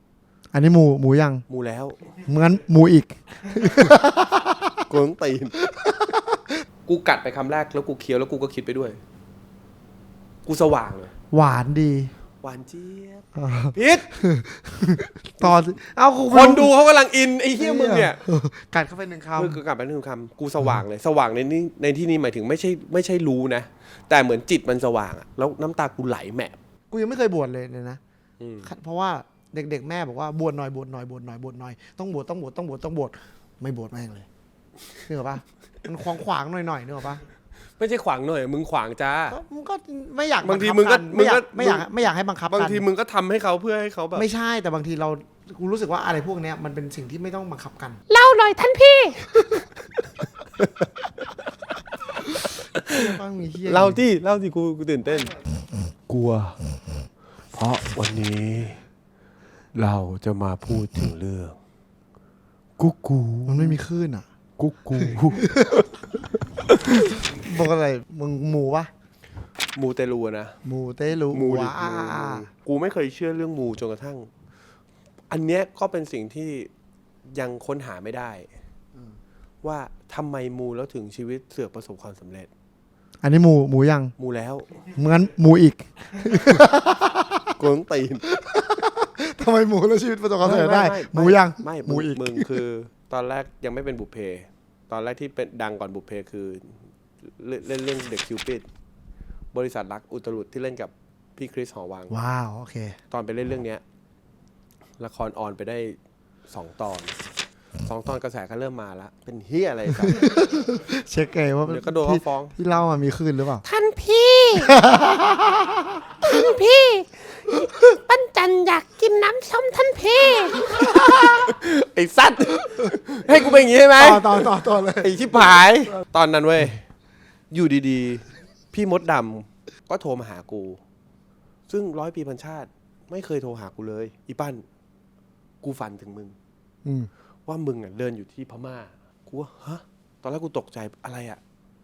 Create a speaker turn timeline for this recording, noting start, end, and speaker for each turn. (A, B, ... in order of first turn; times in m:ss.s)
0:00.5-0:01.4 A
0:01.5-0:02.0 B
0:02.2-0:04.8 A
0:04.9-0:05.6 B
0:05.6-0:06.5 A
0:06.9-0:09.0 B
0:10.4-0:11.1 B
0:11.3-0:12.1 A
0:12.4-0:14.2 B
0:13.3-0:16.7 A
0:16.3-0:18.2 B
0:17.6-0:19.6 A
0:19.4-0:26.6 B
0:26.9-0:28.0 A
0:28.4-0:28.7 B
0:28.6-0:34.3 A
0:35.0-0:37.2 A
0:37.8-0:39.4 B
0:39.3-0:42.8 A
0:40.4-0:41.8 B
0:42.5-0:44.3 B
0:44.1-0:48.0 A
0:48.1-0:49.6 C
0:50.6-0:51.4 B
0:52.5-0:53.0 B
0:52.8-0:54.0 A
0:53.6-0:55.4 B
0:56.1-0:56.6 B
0:57.5-0:58.8 B
0:59.7-1:01.6 B
1:02.8-1:03.8 B
1:03.5-1:04.3 A
1:04.6-1:07.2 B
1:05.0-1:05.8 A
1:07.2-1:08.9 A
1:09.8-1:10.6 B
1:10.6-1:12.5 A
1:11.3-1:14.3 B
1:15.3-1:16.7 B
1:17.2-1:18.5 B
1:19.6-1:22.5 B
1:23.2-1:24.1 A
1:24.2-1:24.8 B
1:24.9-1:27.5 A
1:27.6-1:28.3 B
1:28.3-1:32.6 A
1:30.4-1:38.6 B
1:39.5-1:42.1 B
1:42.1-1:43.0 A
1:43.1-1:43.8 B
1:45.0-1:46.0 B
1:46.5-1:47.1 B
1:47.8-1:50.5 B
1:50.0-1:53.6 A
1:51.6-1:52.6 B
1:53.6-1:54.7 C
1:54.6-1:56.3 A
1:56.2-2:01.4 C
2:01.3-2:04.5 B
2:04.0-2:05.4 A
2:05.0-2:06.8 B
2:07.5-2:10.8 B
2:11.7-2:14.6 B
2:15.6-2:16.3 B
2:16.8-2:17.1 A
2:17.4-2:21.4 B